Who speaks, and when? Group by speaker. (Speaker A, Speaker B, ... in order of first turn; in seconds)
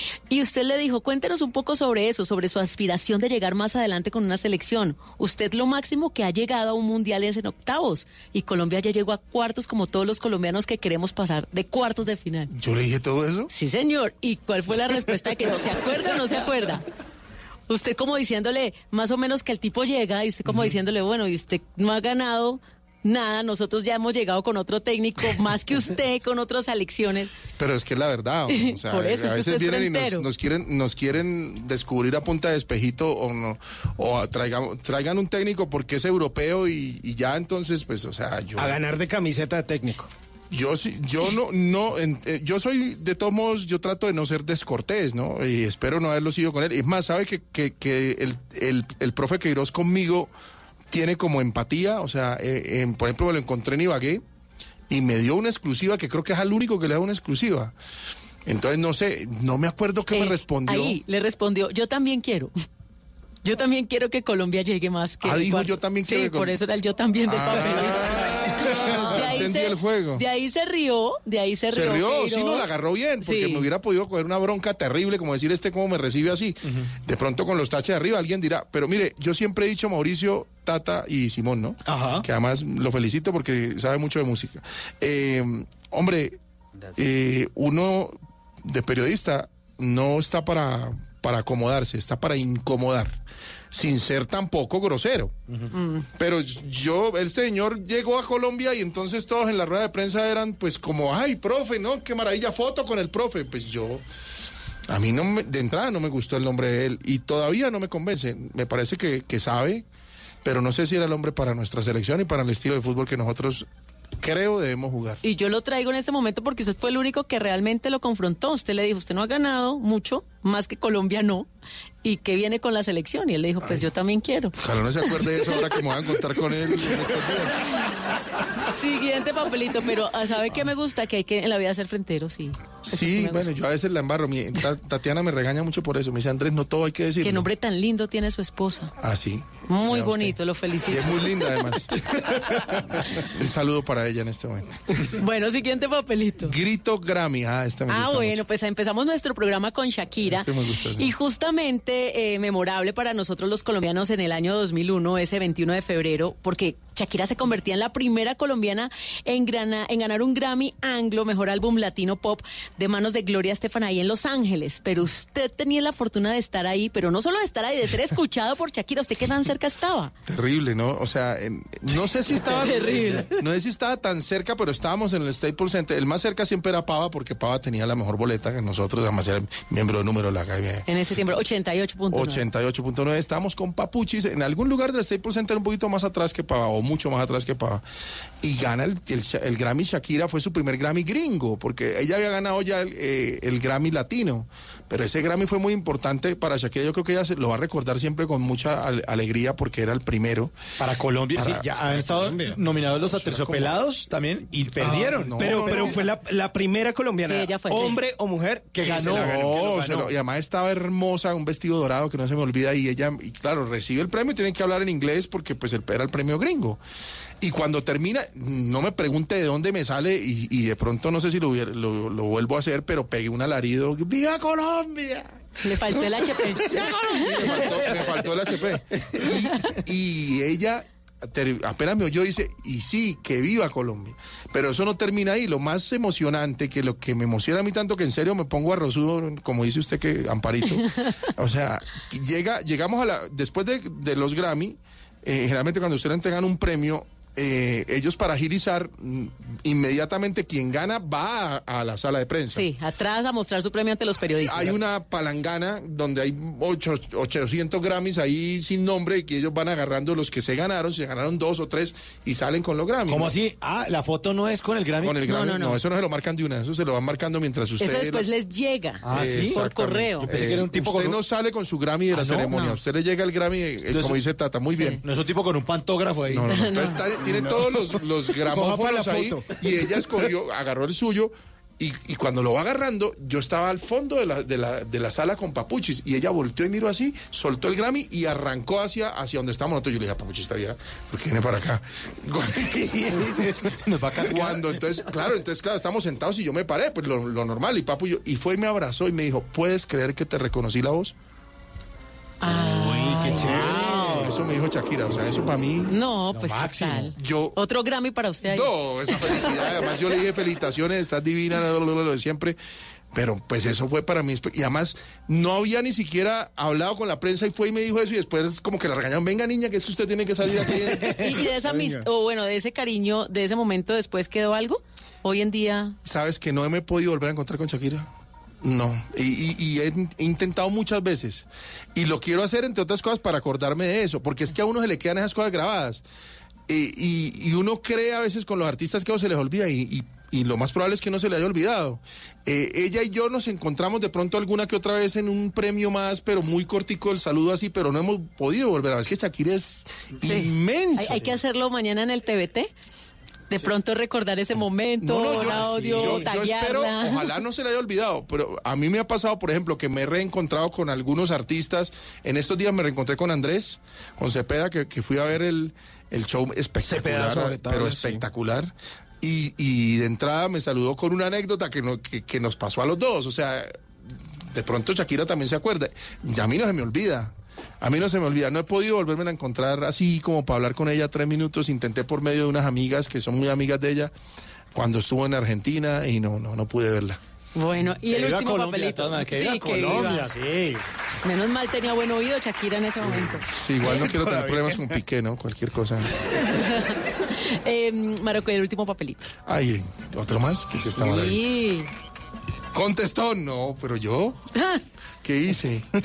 Speaker A: 0.3-12.5, 13.5-16.8, 17.7-27.4, 28.6-30.3, 60.1-62.5, 63.4-73.7, 95.7-96.1, 115.2-121.5, 122.0-124.5, 125.2-125.6, 128.7-133.6, 137.2-138.9, 139.7-141.8, 145.2-146.6, 147.9-170.1, 172.3-173.3, 180.9-182.4, 207.2-208.0, 225.6-227.9, 252.5-254.8, 265.2-265.8, 267.8-270.3, 274.7-275.0, 276.5-277.0, 302.4-303.8, 305.9-310.0, 321.2-326.0, 350.2-352.7, 353.5-357.3, 387.6-390.3, 391.2-394.2, 396.5-399.3, 400.9-401.9
Speaker B: 12.5-13.5, 27.6-38.8, 40.5-50.3, 50.9-54.2, 54.9-57.7, 58.5-61.0, 65.2-66.6, 67.3-70.2, 71.7-86.4, 87.0-93.2, 93.7-95.4, 96.2-104.0, 104.9-109.8, 110.4-113.7, 114.2-115.2, 124.6-127.6, 132.8-137.5, 139.0-140.4, 140.9-141.9, 142.9-144.8, 146.4-148.4, 150.3-151.1, 170.3-181.4, 182.1-187.8, 188.4-200.6, 201.3-202.4, 203.1-203.9, 204.8-205.9, 209.0-216.8, 217.4-225.2, 226.7-240.8, 241.4-252.7, 254.4-263.4, 265.0-268.3, 269.1-275.0, 276.3-293.0, 294.2-301.1, 303.8-305.9, 307.2-307.6, 308.5-312.6, 313.1-321.3, 326.0-328.1, 328.6-336.0, 336.7-351.3, 355.0-373.7, 374.5-384.1, 384.7-387.2, 393.5-396.1, 399.4-401.4, 402.7-404.4, 405.2-405.9
Speaker C: 38.6-40.1, 81.9-82.3, 204.8-209.6, 278.5-279.5, 302.5-304.2, 366.8-368.2
Speaker D: 200.8-205.9, 208.7-210.1, 263.1-265.2, 269.0-269.6, 270.3-271.2, 272.1-272.8, 273.9-274.2, 275.0-276.5, 292.6-294.8, 303.5-304.4, 306.3-307.1, 355.4-356.3, 388.1-390.8, 393.9-394.8